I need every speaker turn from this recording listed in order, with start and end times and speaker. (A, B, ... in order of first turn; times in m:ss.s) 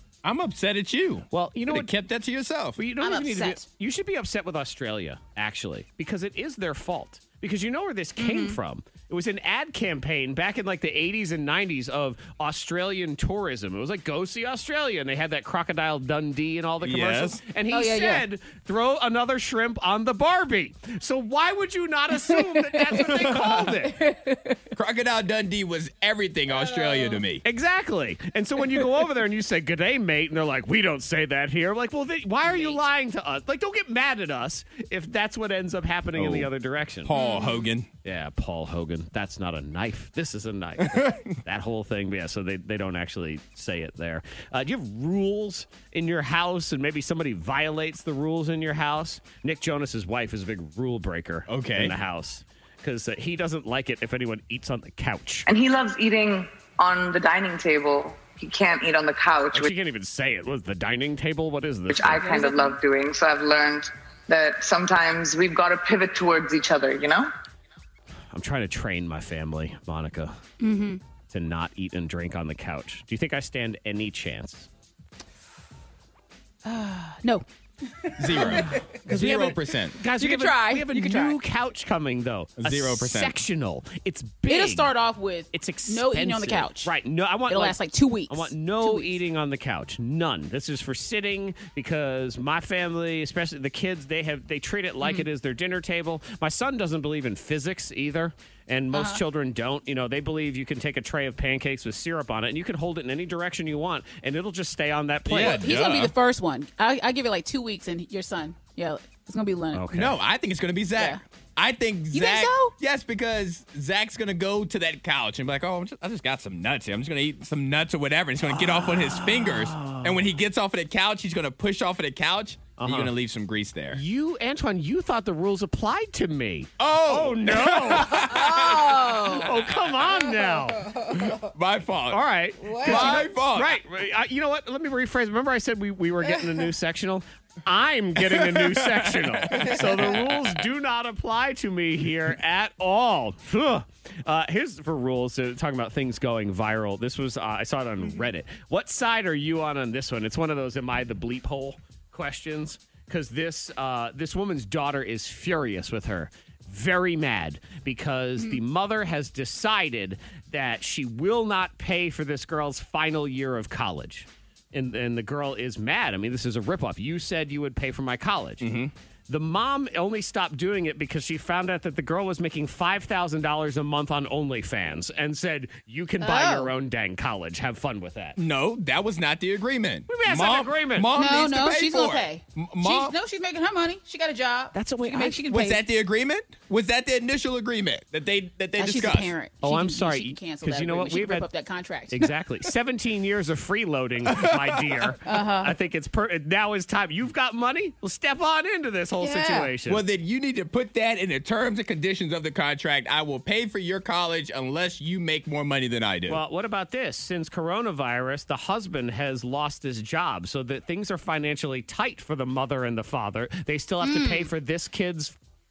0:00.2-0:02.8 A
0:01.3-0:01.9 B
0:02.8-0:24.0 B
0:03.0-0:03.6 C
0:08.2-0:08.6 C
0:16.8-0:17.4 A
0:17.7-0:18.2 C
0:22.3-0:24.6 C
0:23.2-0:23.5 A
0:24.7-0:27.4 A
0:26.5-0:27.2 C
0:27.4-0:37.1 B
0:32.5-0:32.8 C
0:36.2-0:36.5 A
0:37.0-0:37.9 A
0:37.1-0:37.7 C
0:38.0-0:55.5 B
0:40.8-0:41.3 A
0:51.5-0:51.9 A
0:55.5-0:59.7 D
0:59.5-1:02.5 B
1:01.9-1:07.3 D
1:02.1-1:02.7 C
1:08.3-1:10.4 B
1:10.6-1:11.0 C
1:11.3-1:14.7 B
1:16.6-1:19.0 C
1:18.2-1:19.9 A
1:18.4-1:24.9 B
1:20.0-1:21.4 C
1:22.6-1:23.4 A
1:24.5-1:26.9 C
1:25.5-1:27.8 B
1:27.5-1:29.2 C
1:28.3-1:45.7 B
1:35.0-1:35.3 C
1:38.9-1:39.2 C
1:45.2-1:46.1 A
1:45.3-1:49.8 C
1:49.7-1:50.2 B
1:49.9-2:04.0 A
1:52.1-1:52.7 C
1:58.5-2:00.3 B
2:02.8-2:03.1 B
2:03.9-2:10.9 B
2:06.8-2:09.8 A
2:08.1-2:09.5 C
2:10.1-2:11.5 C
2:11.1-2:12.2 A
2:12.1-2:48.7 B
2:12.6-2:13.3 C
2:12.8-2:13.8 A
2:18.2-2:20.6 A
2:48.6-2:48.9 A
2:49.3-2:58.4 B
2:56.2-2:56.7 C
2:58.4-3:03.1 A
3:00.1-3:01.1 B
3:01.1-3:05.8 C
3:04.7-3:05.4 B
3:05.5-3:09.3 A
3:08.8-3:12.3 C
3:09.6-3:11.5 B
3:12.1-3:20.0 B
3:14.2-3:15.1 A
3:15.2-3:15.7 C
3:19.2-3:19.7 C
3:19.8-3:26.4 A
3:26.3-3:35.3 B
3:34.0-3:34.5 C